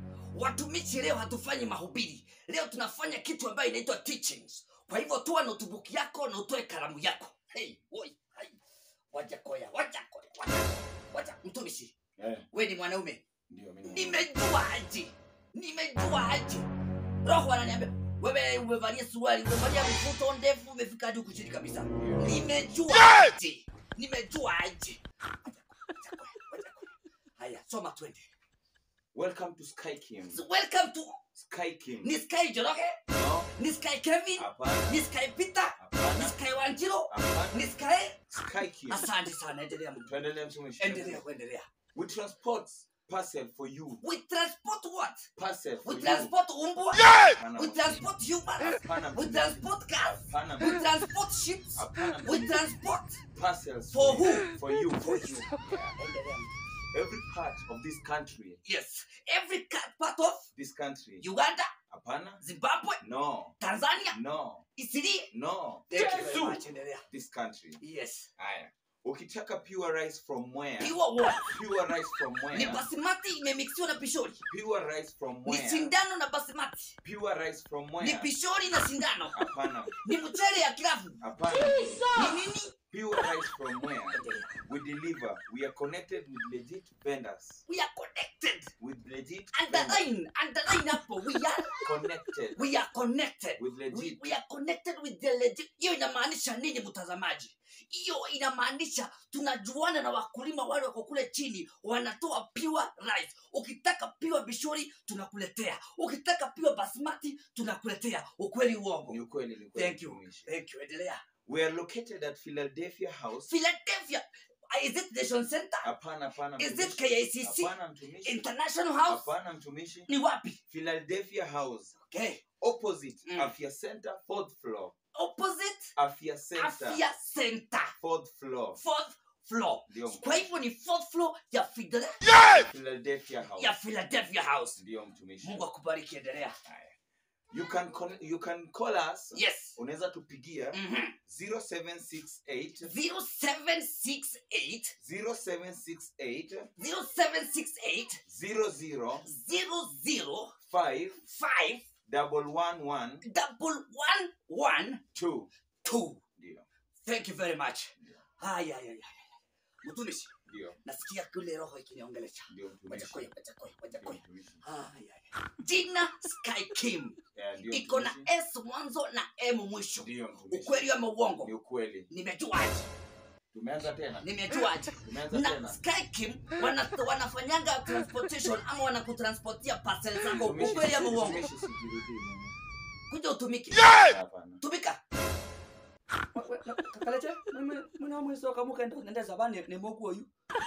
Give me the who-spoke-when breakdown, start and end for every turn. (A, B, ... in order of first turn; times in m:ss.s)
0:00.3-0:08.6 A
0:09.1-0:12.0 A
0:12.2-0:12.5 B
0:12.5-0:13.2 A
0:13.5-0:14.3 B
0:13.8-0:16.7 A
0:17.2-0:28.3 A
0:22.0-0:22.4 B
0:29.1-0:30.4 B
0:30.2-0:31.2 A
0:31.4-0:32.2 B
0:32.0-0:33.0 A
0:33.1-0:33.5 B
0:33.5-0:38.2 A
0:34.4-0:35.1 B
0:35.8-0:36.4 B
0:37.1-0:37.8 B
0:38.3-0:39.1 B
0:38.9-0:40.2 A
0:40.0-0:41.2 B
0:40.8-0:41.7 A
0:41.9-0:44.0 B
0:44.0-0:45.3 A
0:45.4-0:46.3 B
0:45.8-0:53.2 A
0:47.2-0:50.9 B
0:51.8-0:52.7 B
0:53.3-0:56.0 B
0:53.9-0:55.4 A
0:56.0-0:56.5 A
0:56.9-0:58.6 B
0:58.6-1:00.5 A
1:00.5-1:01.3 B
1:01.2-1:01.7 A
1:01.9-1:02.4 B
1:02.4-1:03.0 A
1:03.0-1:03.6 B
1:03.6-1:04.2 A
1:04.1-1:04.7 B
1:04.8-1:05.3 A
1:05.3-1:07.8 B
1:05.9-1:07.0 A
1:07.8-1:08.3 A
1:08.4-1:12.8 B
1:10.8-1:11.5 A
1:12.5-1:14.4 A
1:14.5-1:15.9 B
1:15.4-1:17.0 A
1:17.0-1:18.3 B
1:18.0-1:19.5 A
1:19.3-1:20.0 B
1:20.0-1:21.2 A
1:21.2-1:27.6 B
1:22.0-1:22.7 A
1:24.1-1:24.6 A
1:27.7-1:28.7 A
1:28.8-1:30.1 B
1:29.5-1:31.8 A
1:31.8-1:32.7 B
1:32.6-1:49.2 A
1:33.6-1:34.3 B
1:49.1-1:50.5 B
1:49.8-1:51.2 A
1:51.4-1:53.5 B
1:53.4-1:55.9 A
1:55.8-1:58.4 B
1:56.6-1:59.3 A
1:59.0-2:00.1 B
2:00.1-2:00.6 A
2:00.7-2:01.9 B
2:01.9-2:02.4 A
2:02.6-2:04.9 B
2:03.2-2:03.5 A
2:05.1-2:05.9 A
2:06.0-2:07.0 B
2:06.6-2:08.0 A
2:08.0-2:08.8 B
2:08.8-2:12.3 A
2:09.9-2:10.6 B
2:12.4-2:13.8 B
2:13.6-2:14.8 A
2:14.8-2:15.7 B
2:15.4-2:16.6 A
2:16.6-2:17.0 B
2:17.5-2:22.9 B
2:19.3-2:19.8 A
2:20.7-2:21.2 A
2:22.8-2:25.0 A
2:25.0-2:26.7 B
2:26.8-2:28.2 A
2:28.2-2:29.3 B
2:29.2-2:30.6 A
2:30.7-2:31.2 B
2:31.2-2:31.9 A
2:32.1-2:33.2 B
2:33.2-2:35.0 A
2:35.1-2:35.5 B
2:35.8-2:36.2 A
2:36.4-2:36.7 B
2:37.0-2:40.3 A
2:38.0-2:38.2 B
2:40.5-2:40.8 B
2:40.8-2:51.5 A
2:42.5-2:43.3 B
2:43.9-2:44.6 B
2:47.3-2:48.3 B
2:50.0-2:50.9 B
2:51.4-2:52.1 B
2:52.1-2:52.9 A
2:53.5-2:54.3 B
2:54.2-3:01.5 A
2:55.0-2:55.8 B
3:00.3-3:02.6 B
3:03.1-3:03.9 A
3:03.9-3:04.6 B
3:04.6-3:05.0 A
3:06.4-3:10.3 A